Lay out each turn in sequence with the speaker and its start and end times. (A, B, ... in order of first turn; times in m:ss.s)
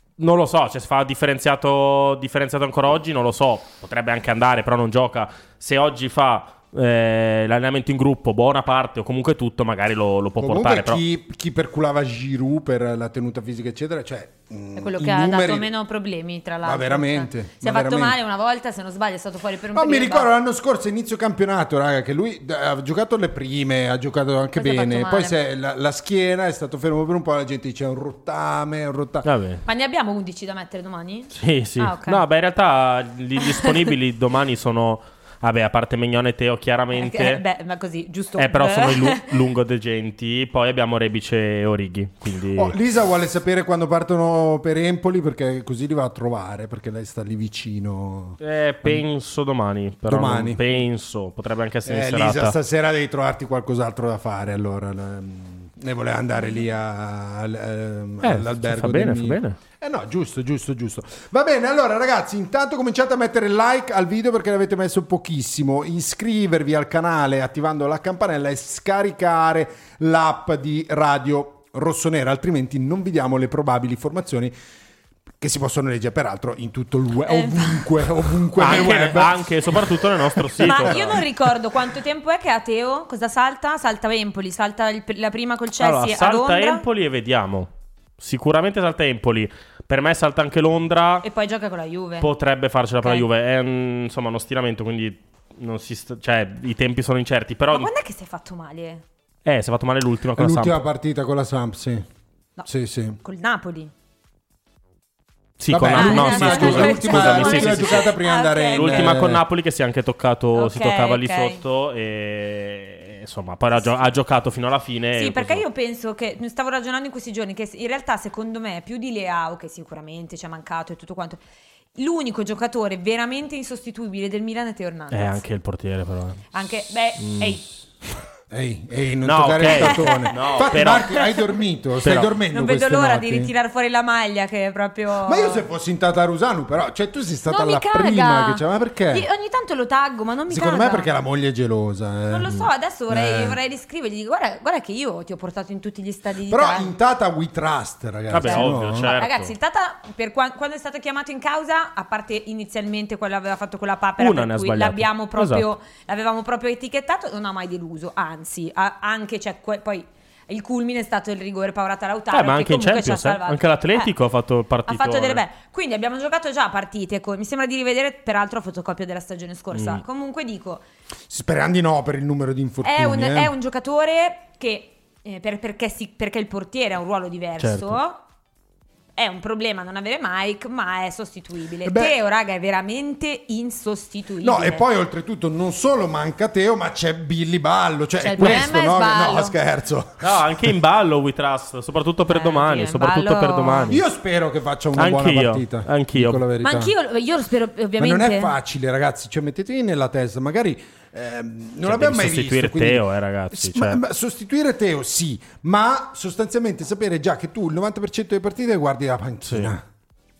0:00.2-0:11.0 A
0:10.4-0:15.7 B
0:14.8-0:20.3 C
0:16.6-0:18.2 B
0:19.7-0:29.3 B
0:24.6-0:25.4 C
0:29.2-0:29.6 A
0:29.7-0:32.2 C
0:31.4-0:37.4 A
0:36.9-0:39.2 C
0:38.4-0:42.8 A
0:42.6-0:49.0 B
0:48.4-0:52.6 A
0:50.1-0:50.6 B
0:51.9-1:14.5 B
0:58.2-0:59.6 A
1:15.4-1:21.2 B
1:17.3-1:17.9 C
1:18.6-1:21.2 A
1:20.6-1:26.8 C
1:25.8-1:31.2 A
1:31.2-1:32.3 C
1:32.2-1:37.9 A
1:33.0-1:33.3 C
1:37.7-1:39.0 C
1:39.4-1:40.8 A
1:40.4-1:42.1 B
1:42.7-1:43.2 B
1:43.2-1:43.9 C
1:45.6-1:48.1 A
1:45.7-1:49.4 B
1:45.9-1:49.1 C
1:48.7-1:55.6 A
1:50.6-1:51.6 C
1:53.8-1:54.1 C
1:55.2-2:01.4 C
2:02.0-2:05.4 C
2:05.1-2:06.4 A
2:06.5-2:07.6 C
2:07.2-2:07.6 A
2:08.5-2:13.5 B
2:09.2-2:11.1 A
2:09.7-2:11.5 C
2:12.0-2:12.3 A
2:12.5-2:15.6 C
2:15.2-2:19.3 B
2:17.5-2:21.1 C
2:20.5-2:23.6 B
2:22.3-2:26.9 C
2:26.5-2:29.1 B
2:28.3-2:29.5 A
2:28.4-2:44.1 C
2:34.2-2:35.7 A
2:42.3-2:45.4 A
2:44.9-2:50.8 C
2:49.7-2:50.0 A
2:51.3-2:53.5 B
2:52.8-2:58.2 C
2:57.6-2:58.0 A
2:59.2-3:04.9 C
3:01.8-3:02.2 B
3:04.4-3:10.7 B
3:08.2-3:09.6 C
3:10.2-3:14.0 A
3:12.3-3:14.0 C
3:13.9-3:16.9 B
3:15.0-3:16.4 A
3:16.6-3:18.5 C
3:18.0-3:29.8 B
3:21.8-3:24.0 A
3:29.5-3:29.7 A